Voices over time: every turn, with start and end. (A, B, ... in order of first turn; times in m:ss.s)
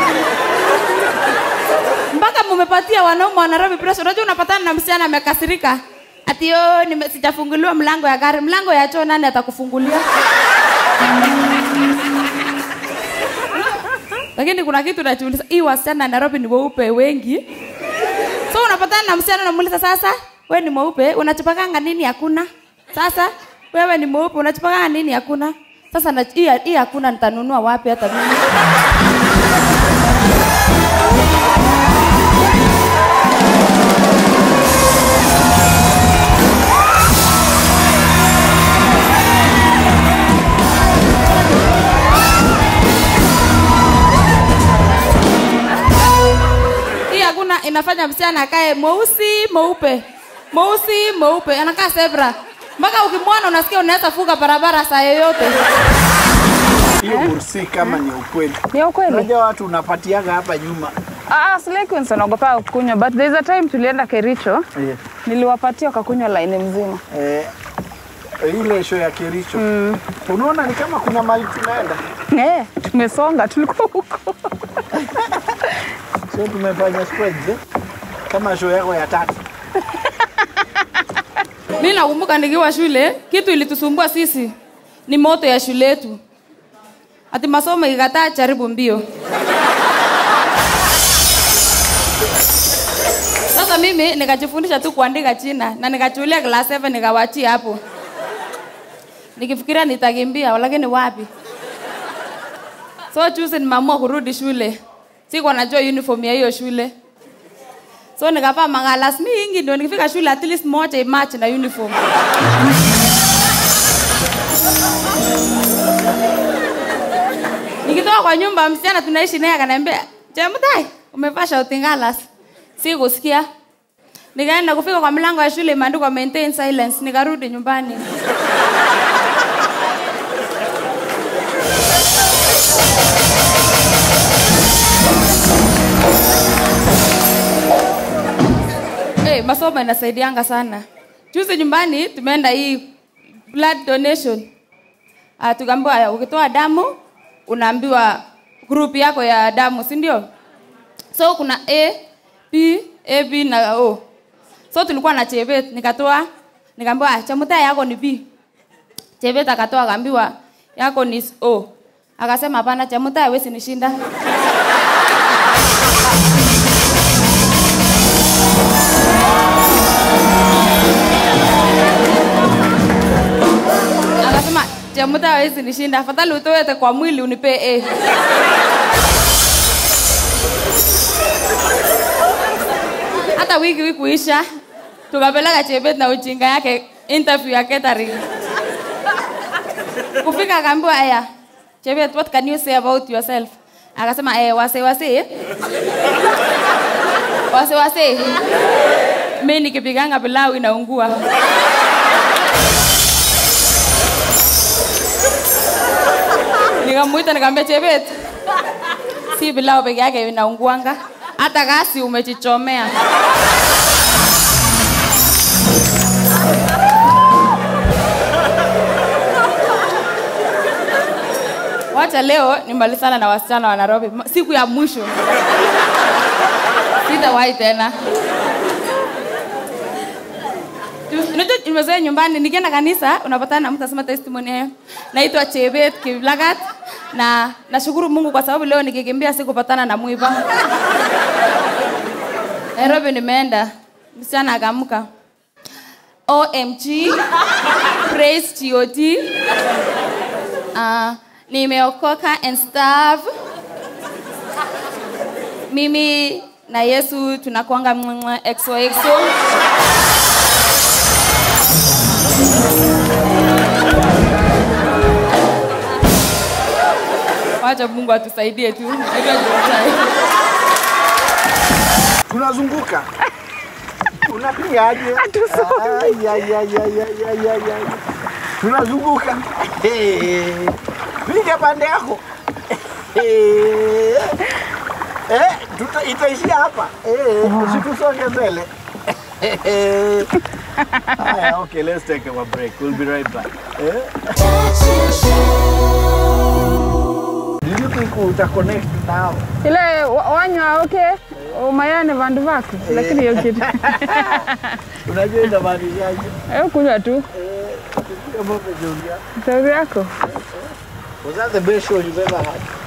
0:02.1-0:10.0 A
0:14.4-0:17.4 A
0:18.5-0:28.5 A
0:47.1-0:55.6 A
0:56.9-1:01.0 B
0:57.0-0:57.3 C
0:58.7-0:59.3 C
1:01.3-1:04.7 C
1:04.8-1:05.0 B
1:05.2-1:07.0 C
1:07.1-1:07.5 B
1:08.4-1:09.6 B
1:09.6-1:10.0 C
1:10.2-1:12.0 B
1:12.3-1:14.4 C
1:14.9-1:15.8 B
1:16.3-1:17.6 B
1:18.3-1:19.4 B
1:21.8-1:24.5 A
1:25.1-1:26.2 A
1:27.3-1:29.0 A
1:33.5-1:37.8 A
1:39.4-1:41.3 A
1:43.1-1:44.8 A
1:45.3-1:46.9 A
1:48.2-1:52.0 A
1:57.8-2:02.3 A
2:02.8-2:03.5 A
2:04.4-2:08.0 A
2:19.2-2:22.9 A
2:23.5-2:24.5 A
2:25.4-2:30.3 A
2:31.1-2:34.0 A
2:34.7-2:38.3 A
2:39.2-2:44.0 A
2:54.2-2:57.9 A
3:03.3-3:04.4 A
3:05.1-3:08.2 A
3:10.2-3:11.3 A
3:11.8-3:15.3 A
3:17.5-3:18.4 A
3:19.4-3:21.2 A
3:26.8-3:28.1 A
3:29.4-3:32.9 A
3:41.9-3:45.1 A
3:47.1-3:48.0 A
3:51.1-4:00.4 A
4:02.8-4:05.1 A
4:06.3-4:07.2 A
4:08.1-4:09.3 A
4:10.8-4:13.3 A
4:15.7-4:19.4 A
4:27.6-4:30.1 A
4:32.3-4:33.1 B
4:34.2-4:38.0 B
4:35.2-4:36.2 C
4:38.6-4:44.4 B
4:45.3-4:50.3 B
4:47.4-4:47.8 C
4:50.8-4:51.2 C
4:51.2-4:54.6 B
4:57.6-4:59.4 B
4:59.6-5:04.6 C
5:02.8-5:04.5 B
5:05.0-5:06.4 B
5:06.5-5:07.3 C
5:07.3-5:09.2 B
5:09.4-5:10.1 C
5:10.2-5:12.7 B